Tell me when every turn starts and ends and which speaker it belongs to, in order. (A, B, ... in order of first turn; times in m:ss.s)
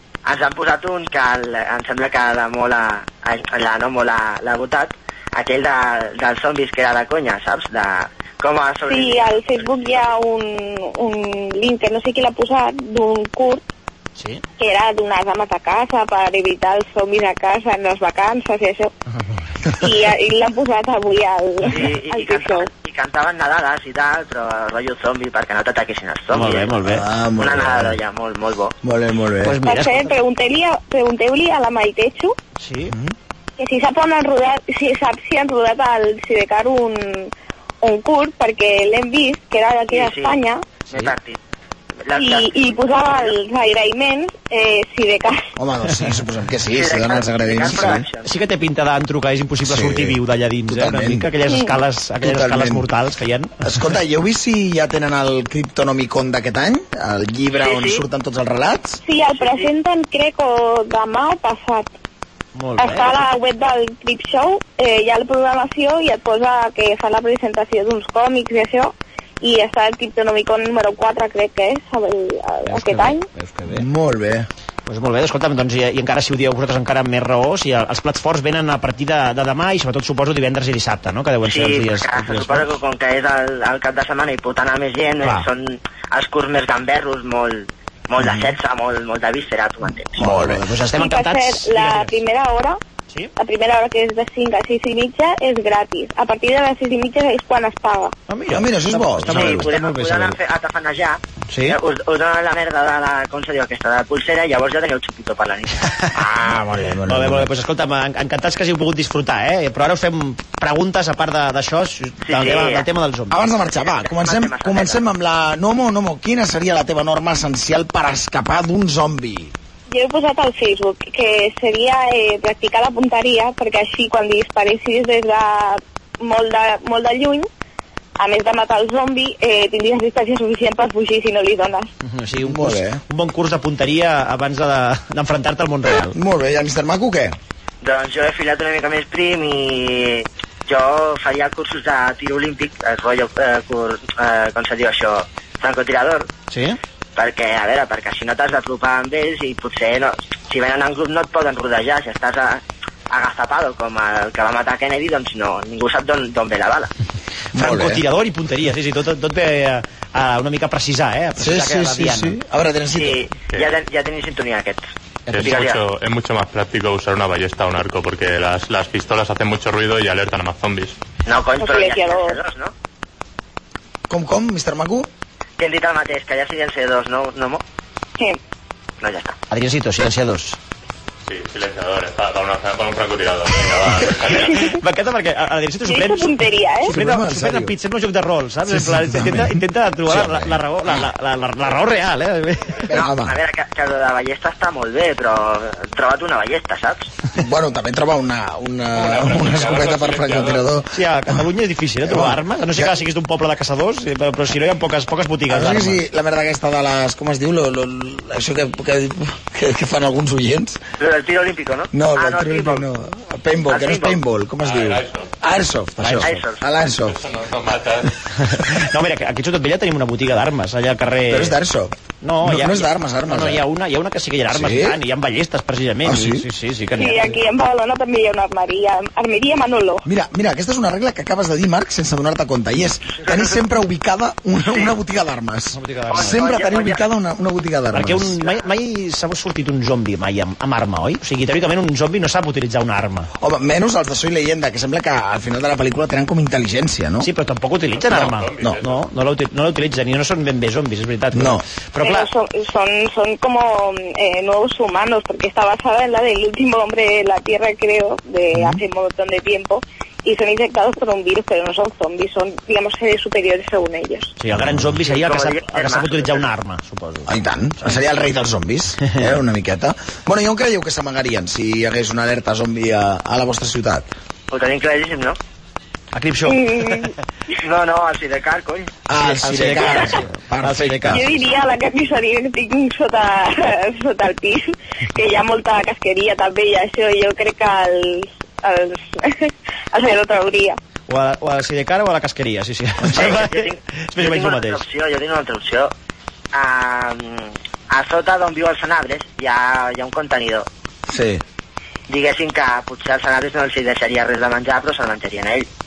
0:00.2-0:10.1 A
0:08.8-0:13.6 B
0:14.2-0:14.4 C
0:14.6-0:18.9 B
0:19.8-0:22.7 B
0:21.7-0:26.8 A
0:26.3-0:27.0 C
0:26.8-0:28.0 D
0:27.4-0:28.7 A
0:28.8-0:29.6 D
0:29.4-0:30.1 C
0:29.6-0:32.3 B
0:32.6-0:33.0 C
0:32.9-0:33.1 D
0:33.6-0:40.7 B
0:39.9-0:40.4 A
0:40.9-0:41.1 C
0:40.9-0:41.4 A
0:42.0-0:43.3 A
0:42.1-0:45.5 B
0:45.6-0:48.0 D
0:46.7-0:48.3 A
0:47.6-0:53.8 C
0:49.6-0:51.3 D
0:51.4-0:51.8 B
0:52.2-0:52.8 D
0:53.6-0:59.0 D
0:57.6-0:58.0 A
0:59.0-1:01.9 B
0:59.3-0:59.7 A
1:02.5-1:03.2 C
1:02.8-1:13.3 B
1:12.6-1:13.8 C
1:13.7-1:14.5 D
1:14.9-1:22.7 C
1:21.4-1:30.2 A
1:25.2-1:25.5 C
1:28.2-1:28.5 D
1:30.2-1:30.6 D
1:30.2-1:32.1 C
1:30.9-1:32.8 B
1:33.4-1:38.1 B
1:38.3-1:40.4 C
1:38.5-1:39.7 D
1:39.3-1:45.8 A
1:41.5-1:41.8 C
1:46.1-1:47.5 D
1:47.1-1:53.4 C
1:52.2-1:52.8 A
1:53.3-1:59.5 D
1:53.8-1:55.0 A
1:59.9-2:07.5 B
2:08.2-2:11.9 B
2:12.0-2:16.2 C
2:12.4-2:13.0 D
2:16.1-2:17.4 D
2:17.8-2:26.3 A
2:26.5-2:26.8 C
2:27.2-2:36.9 A
2:37.5-2:38.0 D
2:37.5-2:42.4 C
2:41.4-2:43.2 D
2:42.9-2:44.8 A
2:45.3-2:51.0 E
2:45.4-2:45.8 A
2:51.2-2:52.7 A
2:51.6-2:52.4 B
2:54.1-2:55.1 D
2:55.6-2:57.6 A
2:59.0-2:59.3 A
2:59.5-3:00.6 C
3:01.2-3:04.7 E
3:04.3-3:12.9 C
3:05.8-3:06.9 B
3:06.9-3:07.7 D
3:08.6-3:11.1 D
3:12.9-3:13.4 D
3:13.1-3:17.1 A
3:17.4-3:21.4 D
3:19.0-3:20.6 E
3:20.9-3:26.0 C
3:22.0-3:22.9 D
3:25.5-3:30.8 D
3:31.0-3:32.8 A
3:31.9-3:37.2 D
3:33.7-3:34.2 A
3:34.6-3:35.3 E
3:36.0-3:36.4 C
3:36.2-3:36.6 A
3:37.1-3:38.1 E
3:38.4-3:41.6 C
3:41.3-3:43.6 D
3:42.2-3:47.4 C
3:44.5-3:45.0 D
3:46.0-3:46.5 D
3:47.0-3:50.0 B
3:50.0-3:58.4 D
3:55.7-3:56.5 C
3:56.1-3:57.0 A
3:57.9-4:03.3 C
4:03.4-4:07.3 D
4:07.2-4:12.3 C
4:07.9-4:09.0 E
4:11.3-4:11.6 D
4:12.0-4:24.4 B
4:24.4-4:27.9 C
4:24.5-4:24.9 D
4:25.0-4:26.4 A
4:27.3-4:34.1 D
4:34.5-4:35.4 A
4:36.1-4:37.1 C
4:36.4-4:37.1 B
4:37.6-4:38.9 A
4:39.1-4:41.4 D
4:39.2-4:41.2 C
4:41.1-4:50.8 B
4:51.1-4:54.8 C
4:53.1-4:55.9 A
4:56.5-5:00.6 A
5:01.1-5:01.4 D
5:02.1-5:05.7 A